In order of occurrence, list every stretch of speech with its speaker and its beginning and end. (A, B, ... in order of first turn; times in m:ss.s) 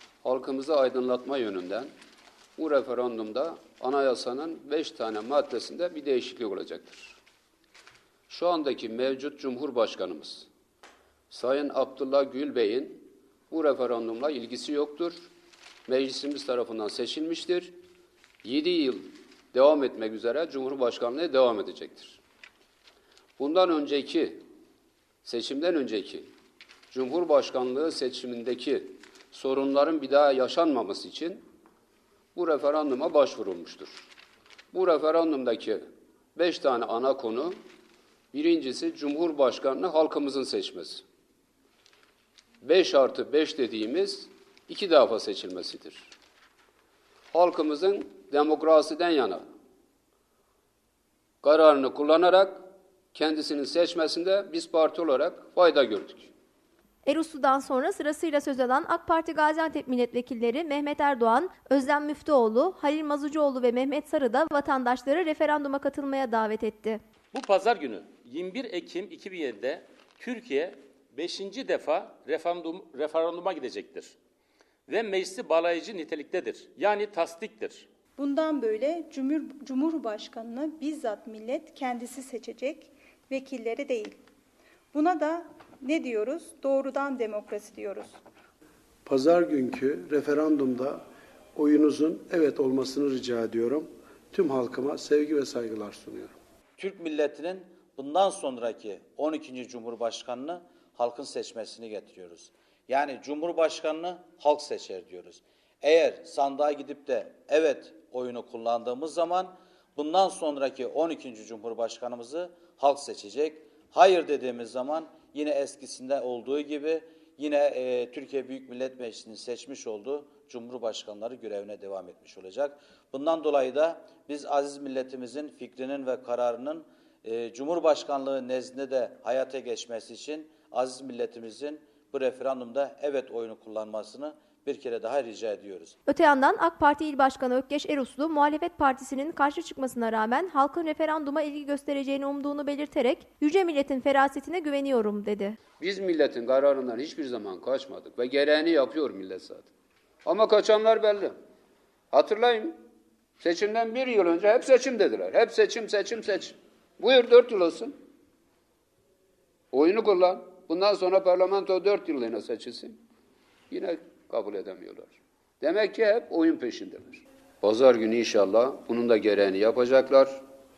0:00.2-0:01.9 A
0:02.6-0:07.2 A
0:08.3-0:10.5 A
0:11.3-0:15.3 A
0:15.9-0:17.8 A
0:18.4-0:22.2 A
0:23.4-0:24.4 A
0:25.2-0:26.3 A
0:26.9-0:31.4 A
0:32.4-0:34.1 A
0:34.7-0:35.8 A
0:36.4-0:37.6 A
0:38.3-0:41.0 A
0:42.6-0:46.1 A
0:47.3-0:49.4 A
0:51.4-0:56.3 A
0:57.0-1:07.0 B
1:07.3-1:14.2 C
1:14.9-1:17.9 C
1:18.2-1:24.2 D
1:24.9-1:28.2 D
1:29.1-1:31.0 E
1:31.6-1:36.4 E
1:36.8-2:16.0 F
2:16.1-2:25.6 B
2:25.8-2:29.7 A
2:30.2-2:31.3 A
2:32.1-2:32.8 A
2:33.4-2:37.9 A
2:39.7-2:43.0 A
2:43.7-2:50.4 A